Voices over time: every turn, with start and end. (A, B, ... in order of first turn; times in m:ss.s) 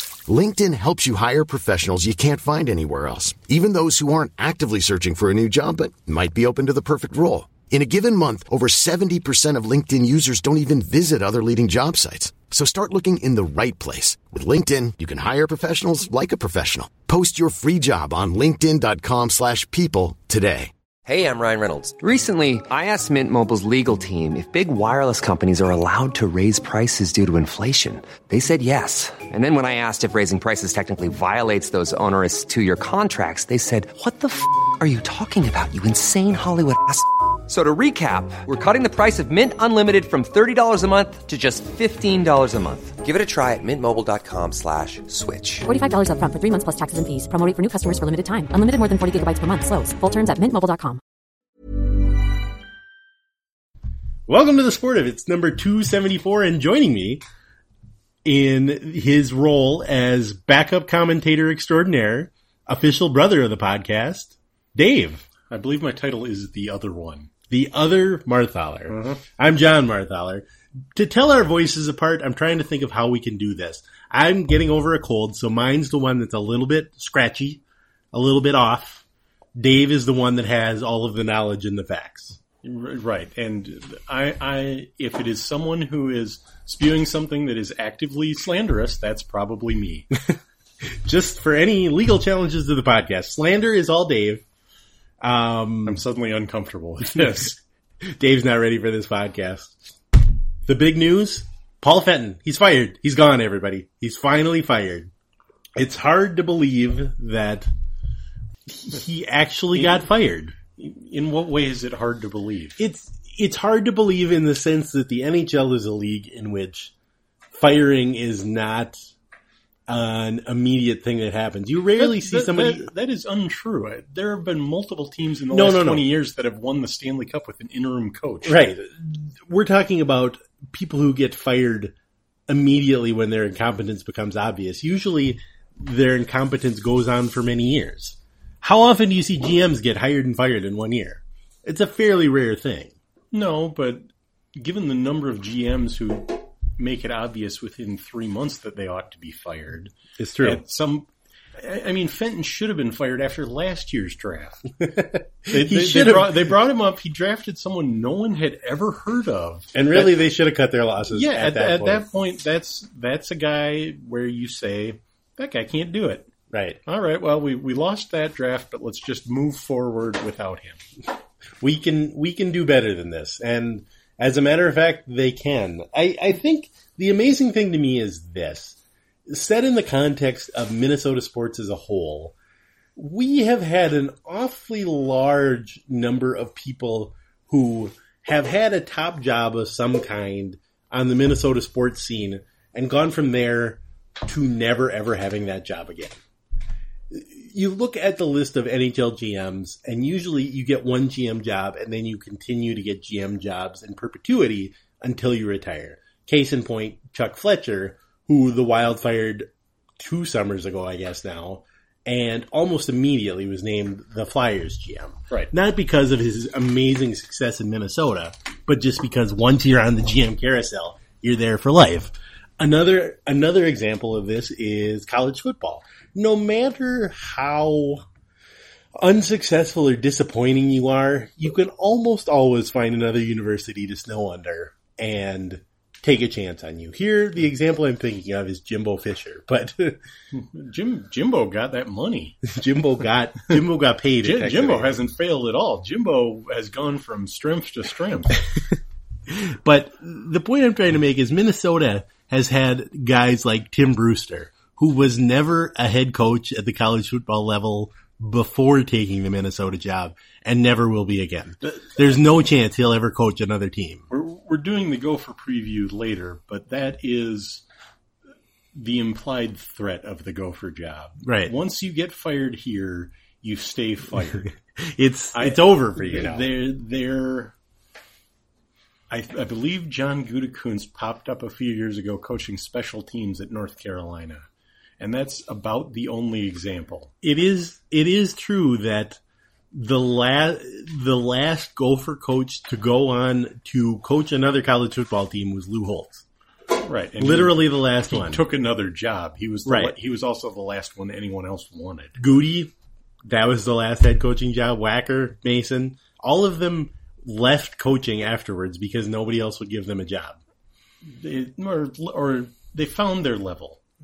0:00.3-0:20.7 A
0:21.0-0:45.6 B
0:45.6-0:51.0 C
0:54.3-0:57.2 D
0:58.2-1:05.2 D
1:05.5-1:07.3 E
1:07.5-1:17.6 D
1:08.9-1:09.2 E
1:18.1-1:19.0 D
1:19.6-1:22.4 D
1:22.6-1:30.1 E
1:31.0-1:34.4 D
1:35.2-1:36.0 D
1:35.8-1:37.6 E
1:38.0-1:39.8 D
1:40.6-1:45.1 D
1:45.8-1:47.7 D
1:48.7-1:50.5 D
1:50.8-1:52.8 E
1:52.8-1:56.9 D
1:57.5-1:59.0 D
1:59.9-2:02.9 D
2:02.0-2:08.7 E
2:05.5-2:06.1 D
2:08.4-2:11.9 D
2:12.5-2:22.9 D
2:23.3-2:34.6 E
2:30.2-2:30.6 D
2:34.8-2:36.5 D
2:35.5-2:40.1 E
2:39.7-2:42.1 D
2:41.1-2:46.3 E
2:46.5-2:46.8 D
2:46.8-2:50.8 E
2:51.6-3:02.3 D
3:03.0-3:16.2 D
3:17.1-3:48.0 D
3:49.0-4:00.0 D
4:00.3-4:02.4 E
4:02.4-4:05.0 D
4:04.2-4:08.4 E
4:09.3-4:24.0 D
4:24.1-4:27.6 E
4:28.7-4:34.5 E
4:31.2-4:31.5 D
4:34.8-4:36.5 D
4:35.3-4:37.5 E
4:39.1-4:44.4 E
4:45.0-4:47.1 E
4:47.2-4:49.2 D
4:49.7-4:56.2 D
4:56.8-5:02.2 E
4:57.2-4:58.4 D
4:59.6-5:00.0 D
5:02.2-5:02.7 D
5:03.2-5:10.4 D
5:11.0-5:13.8 E